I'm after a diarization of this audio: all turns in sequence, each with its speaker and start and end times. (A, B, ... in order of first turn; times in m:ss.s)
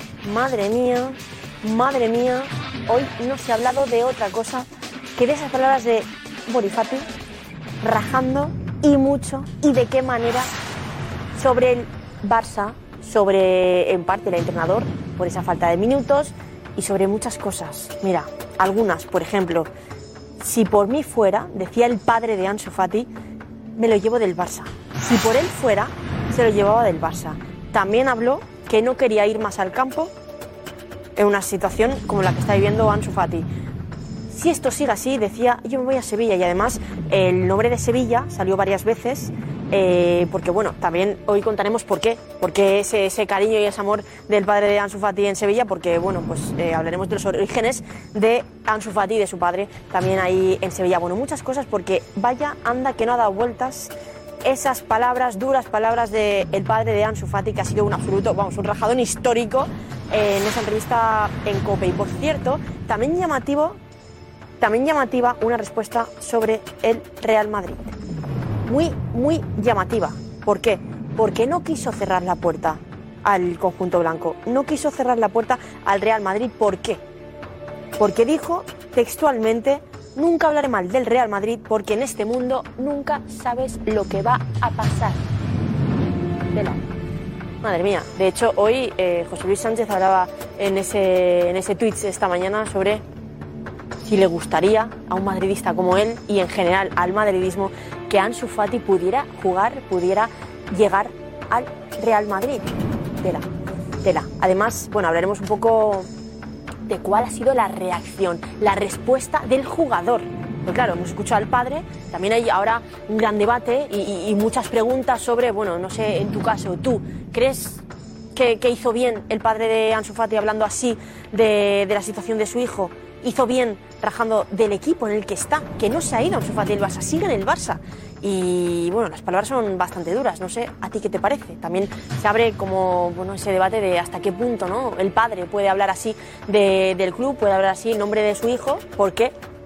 0:00.2-0:07.1 A
0:07.8-0:10.5 A
0:11.4-0:19.7 A
0:20.4-0:23.1 A
0:23.8-0:30.1 A
0:31.2-0:33.5 A
0:34.3-0:53.9 A
0:54.4-1:03.8 A
1:04.6-1:07.9 A
1:08.7-1:17.0 A
1:18.0-1:25.2 A
1:26.5-1:26.8 A
1:27.6-1:33.0 A
1:34.1-1:43.5 A
1:44.0-1:46.1 A
1:46.9-1:57.8 A
1:58.3-2:19.4 A